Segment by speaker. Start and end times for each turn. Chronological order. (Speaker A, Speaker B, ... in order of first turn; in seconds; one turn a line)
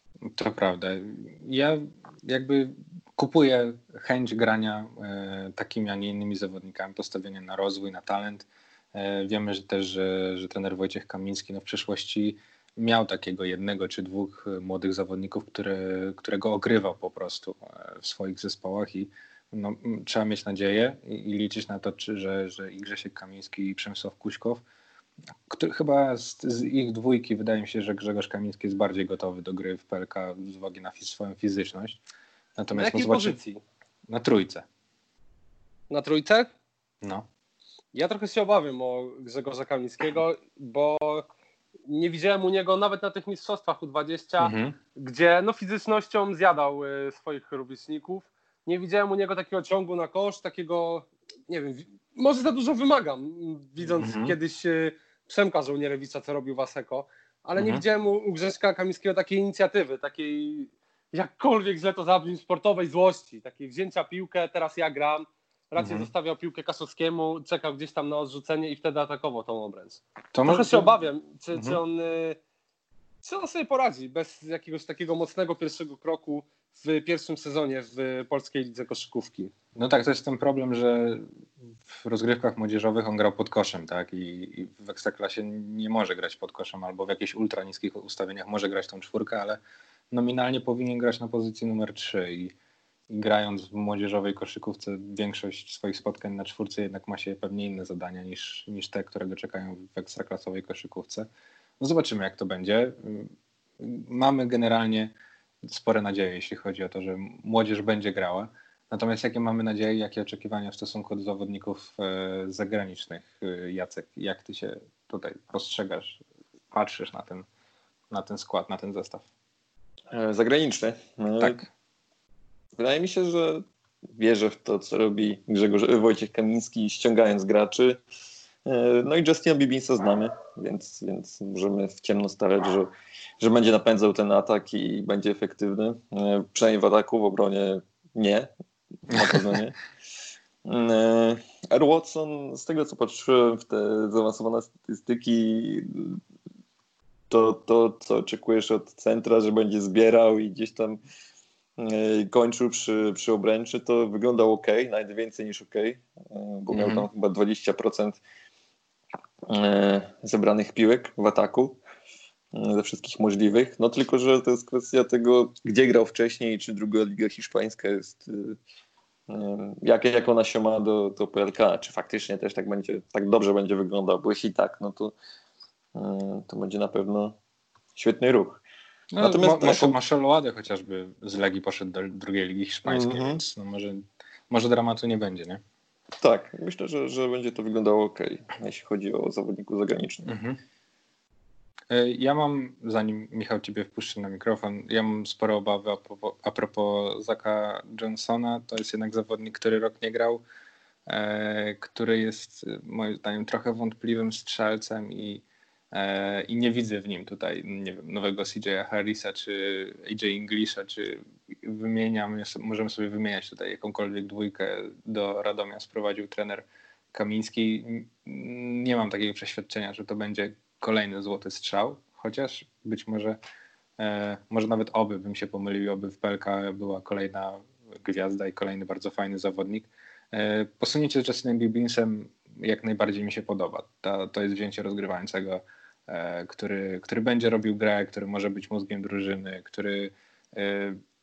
Speaker A: 0.2-24.6
Speaker A: 25.5-32.0
Speaker A: 32.6-33.4
Speaker B: 32.7-33.6
Speaker A: 34.1-34.6
Speaker B: 35.9-36.5
Speaker A: 37.0-37.3
Speaker B: 37.9-41.3
Speaker B: 41.9-72.4
Speaker A: 44.4-44.8
Speaker A: 53.9-54.4
Speaker A: 57.6-57.8
Speaker A: 65.8-66.1
Speaker A: 70.3-70.9
Speaker A: 71.5-71.8
Speaker B: 73.2-79.5
Speaker A: 79.8-81.3
Speaker A: 81.9-89.6
Speaker A: 90.1-92.5
Speaker A: 93.1-101.3
Speaker A: 101.8-105.1
Speaker A: 105.6-117.5
Speaker A: 118.1-119.2
Speaker C: 120.1-121.6
Speaker A: 121.4-121.7
Speaker C: 122.8-123.6
Speaker C: 124.1-128.0
Speaker C: 128.7-138.5
Speaker C: 139.1-139.8
Speaker A: 139.1-139.6
Speaker C: 140.6-146.2
Speaker C: 147.3-151.0
Speaker C: 151.8-158.2
Speaker A: 156.7-157.1
Speaker C: 159.5-161.8
Speaker C: 162.5-168.6
Speaker C: 169.3-175.1
Speaker C: 175.9-177.4
Speaker C: 178.0-178.6
Speaker A: 179.1-185.6
Speaker C: 179.2-180.0
Speaker C: 182.9-183.4
Speaker C: 186.2-190.3
Speaker A: 190.2-190.6
Speaker A: 191.9-200.4
Speaker A: 201.1-223.4
Speaker A: 224.0-241.0